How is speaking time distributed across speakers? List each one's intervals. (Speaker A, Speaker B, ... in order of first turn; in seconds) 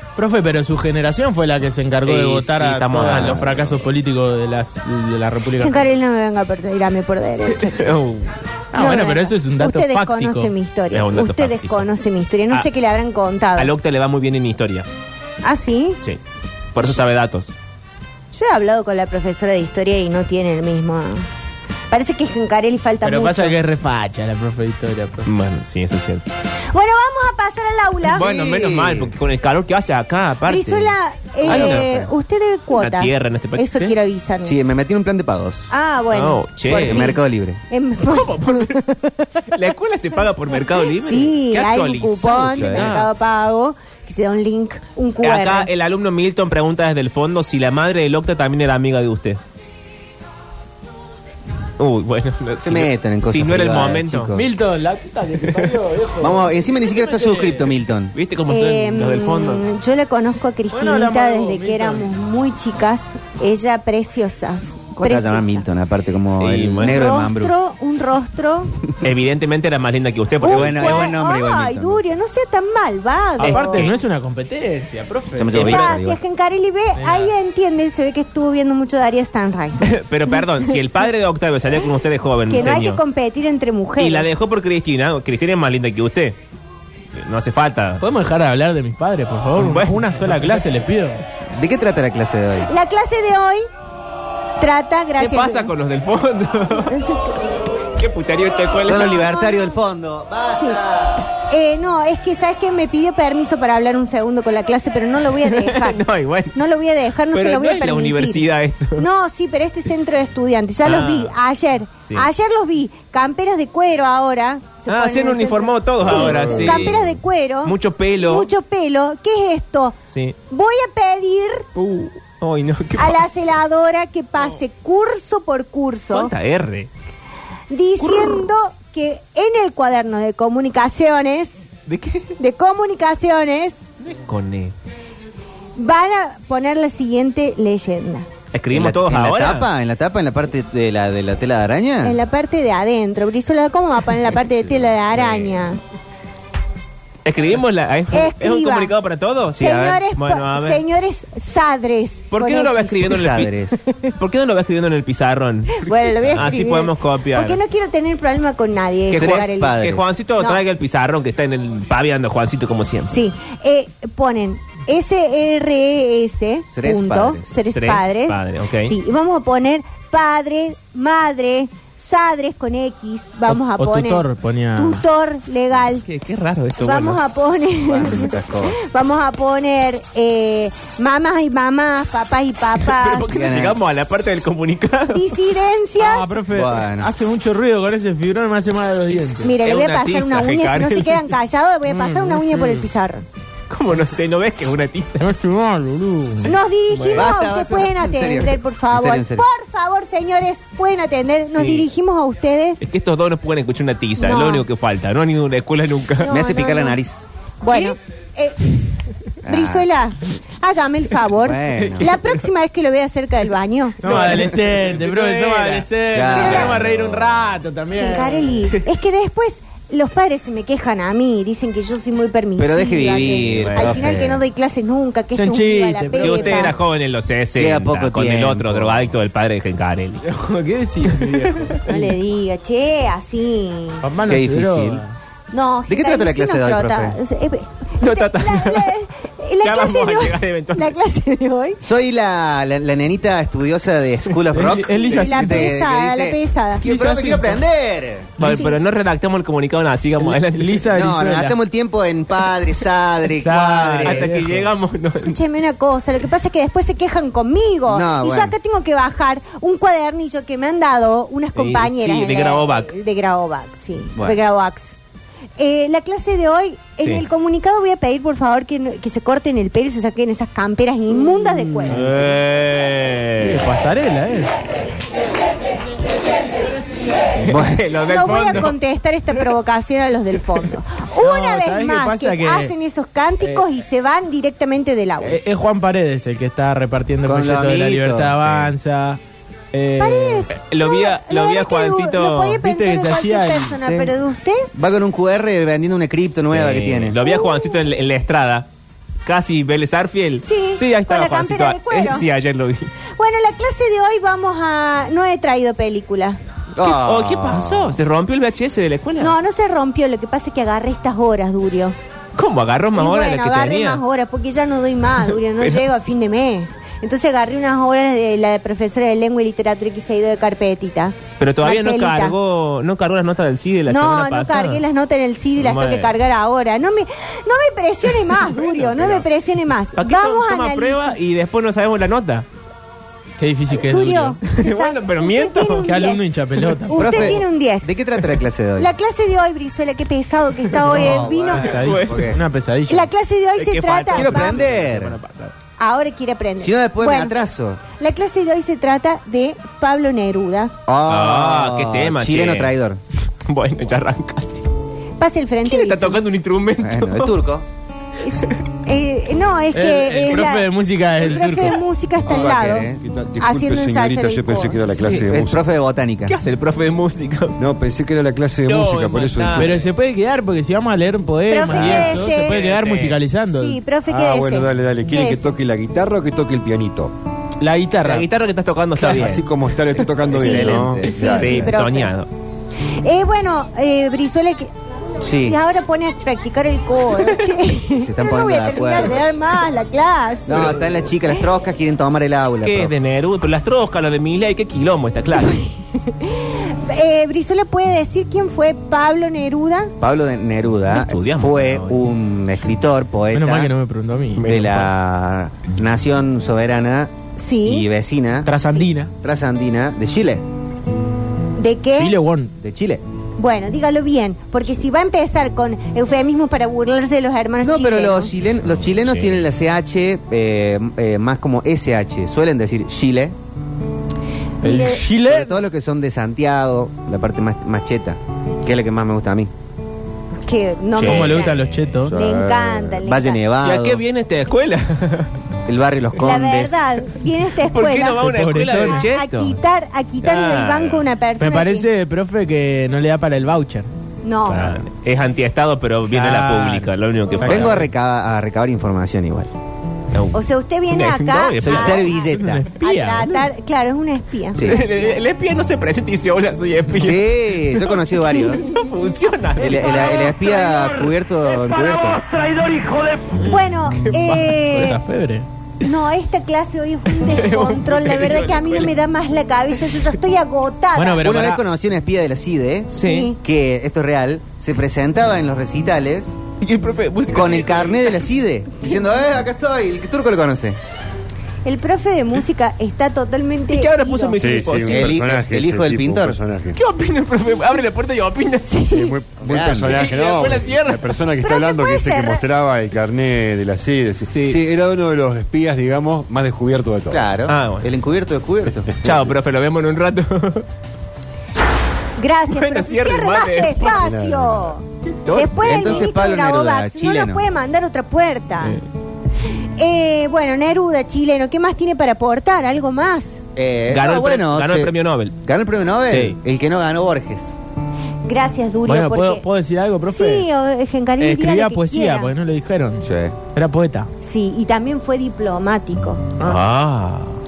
Speaker A: 0.1-5.9, 8.7-10.5, 23.0-25.3, 54.3-57.7, 60.7-62.1, 73.4-75.7, 77.0-77.3, 88.0-91.2, 173.5-175.0, 186.0-189.5, 195.2-197.2, 214.0-218.5, 225.3-226.7, 230.2-231.9, 234.0-235.2, 244.5-245.7, 246.8-247.6, 250.2-251.6, 253.4-254.7, 271.9-272.3, 273.4-274.5, 281.2-282.7, 285.2-289.2, 289.7-290.5, 292.6-293.8, 333.4-334.4, 335.8-337.3, 341.5-343.1, 359.7-361.8, 369.6-373.8, 377.6-378.3, 379.0-379.3, 403.3-404.5, 408.4-409.1, 412.0-412.5, 424.6-425.6, 431.0-432.1, 438.2-439.1, 441.4-443.9, 446.1-447.9, 452.3-453.4, 464.6-465.5, 470.9-471.6, 518.9-520.5, 521.2-524.1
Speaker B: 2.0-3.8, 7.5-8.4, 10.9-11.9, 13.6-14.9, 16.7-17.5, 25.2-26.2, 28.1-31.9, 32.8-34.0, 36.1-37.1, 38.1-38.8, 39.5-43.1, 45.2-49.4, 51.8-54.3, 58.1-59.6, 66.4-67.1, 69.0-71.1, 73.4-73.9, 75.5-75.9, 79.8-83.0, 84.0-86.4, 87.1-88.0, 89.6-90.4, 95.2-97.0, 97.9-99.2, 105.4-106.5, 107.3-109.0, 110.8-111.3, 114.9-118.5, 120.1-120.4, 121.8-123.3, 126.1-126.9, 128.0-128.5, 131.9-132.3, 134.0-134.7, 138.5-139.7, 145.1-145.6, 147.2-150.8, 152.3-153.5, 154.1-157.6, 159.1-163.2, 167.6-168.9, 175.9-177.2, 182.8-185.4, 189.6-191.3, 191.9-192.8, 193.7-195.3, 201.5-201.9, 202.8-206.3, 207.7-207.9, 211.8-212.5, 214.0-215.8, 223.6-224.1, 226.1-230.2, 231.2-231.7, 238.0-238.9, 239.6-240.9, 248.4-250.8, 253.9-255.4, 261.6-262.9, 271.8-273.6, 277.4-278.7, 290.5-292.6, 296.5-298.7, 299.2-302.9, 306.8-309.4, 312.4-314.0, 315.6-316.0, 321.4-324.8, 325.6-326.1, 328.2-329.2, 329.9-332.4, 334.5-336.1, 340.8-342.2, 343.6-345.5, 351.1-352.7, 353.4-354.6, 355.6-357.3, 365.0-365.3, 366.3-367.6, 368.6-369.7, 371.7-373.2, 378.0-379.4, 381.1-382.3, 392.6-395.6, 400.9-402.1, 404.4-404.9, 418.9-419.4, 430.9-431.5, 433.6-435.3, 437.6-439.6, 440.2-441.1, 444.4-447.9, 450.1-452.2, 454.6-460.3, 463.3-464.5, 467.1-468.9, 472.9-473.3, 476.6-478.2, 483.7-485.2, 486.7-488.8, 489.9-491.1, 494.3-494.6, 497.5-497.9, 499.0-500.6, 502.5-504.0, 505.2-506.1, 508.6-508.8, 513.9-515.4, 516.1-516.4, 526.4-527.4
Speaker C: 3.1-3.5, 28.1-29.1, 31.4-32.1, 34.4-35.7, 36.8-37.6, 42.5-43.0, 52.6-54.5, 56.2-58.1, 65.0-67.5, 70.4-72.0, 75.3-76.2, 91.5-92.7, 98.8-101.2, 138.7-142.2, 149.6-150.0, 153.1-153.8, 159.1-160.1, 166.7-167.5, 177.8-178.8, 183.2-183.8, 186.5-187.1, 197.1-199.4, 206.3-207.3, 209.4-209.9, 211.3-212.2, 216.1-217.1, 222.6-224.4, 227.6-229.1, 234.2-235.0, 235.9-237.2, 241.8-248.3, 250.9-254.3, 257.9-258.5, 264.1-264.4, 277.4-277.9, 287.2-288.7, 293.8-294.1, 294.7-297.2, 306.7-308.0, 336.9-338.9, 340.9-342.4, 344.1-345.2, 346.6-347.8, 350.9-353.0, 356.8-357.7, 362.2-363.0, 365.1-366.4, 380.3-381.7, 385.2-385.6, 387.9-389.3, 390.5-392.9, 400.0-403.7, 404.4-408.5, 409.2-410.4, 412.6-413.0, 417.6-423.4, 425.1-429.5, 432.1-434.0, 435.6-436.8, 447.4-449.5, 451.6-452.6, 454.5-454.8, 456.9-458.6, 459.6-462.2, 471.2-476.4, 477.3-480.8, 484.8-486.4, 489.4-490.1, 497.1-499.3, 505.6-507.4, 513.5-514.9, 515.4-517.5, 523.0-523.4
Speaker D: 5.6-7.8, 8.7-13.7, 15.4-16.0, 18.3-21.3, 21.9-23.6, 26.7-28.2, 30.4-34.6, 35.7-39.4, 40.8-45.7, 58.5-65.6, 66.9-68.7, 70.4-73.8, 75.5-80.7, 82.5-84.3, 92.7-93.7, 94.6-95.7, 96.8-97.6, 99.0-99.8, 101.4-106.0, 106.5-120.0, 120.5-121.7, 123.0-126.3, 127.7-131.6, 132.4-133.8, 135.8-138.3, 142.0-145.8, 148.1-148.9, 149.6-153.1, 155.7-159.8, 160.4-160.6, 163.1-174.2, 174.8-176.0, 176.8-183.3, 185.1-186.3, 189.4-193.2, 196.4-202.8, 204.2-204.6, 206.2-207.0, 207.6-208.8, 209.4-214.1, 216.3-216.7, 217.9-226.8, 231.9-234.0, 235.5-241.8, 245.1-246.8, 248.4-248.8, 255.2-265.0, 265.6-272.0, 278.0-285.4, 290.0-294.7, 297.2-297.8, 300.4-302.2, 303.1-306.4, 309.2-311.9, 312.9-322.3, 323.9-331.2, 333.7-336.2, 336.9-337.9, 338.8-341.8, 342.9-344.6, 345.8-347.3, 347.9-350.7, 355.2-356.2, 358.2-362.9, 363.4-365.1, 371.5-372.6, 373.5-375.5, 380.3-382.1, 383.0-384.7, 385.4-390.8, 395.4-399.9, 407.4-407.9, 411.6-412.2, 413.4-418.3, 424.6-425.0, 430.4-433.4, 436.2-438.3, 438.8-441.9, 444.2-444.8, 450.3-452.3, 452.8-455.2, 459.7-460.9, 463.4-465.0, 465.8-471.2, 472.9-473.4, 481.6-484.6, 488.7-489.1, 491.4-492.4, 502.2-508.8, 509.8-513.4, 518.2-519.4, 520.0-522.3, 524.2-526.2
Speaker E: 362.9-365.6, 367.6-369.9, 374.1-377.1, 379.0-381.1, 484.4-486.8, 488.9-497.3, 503.8-504.7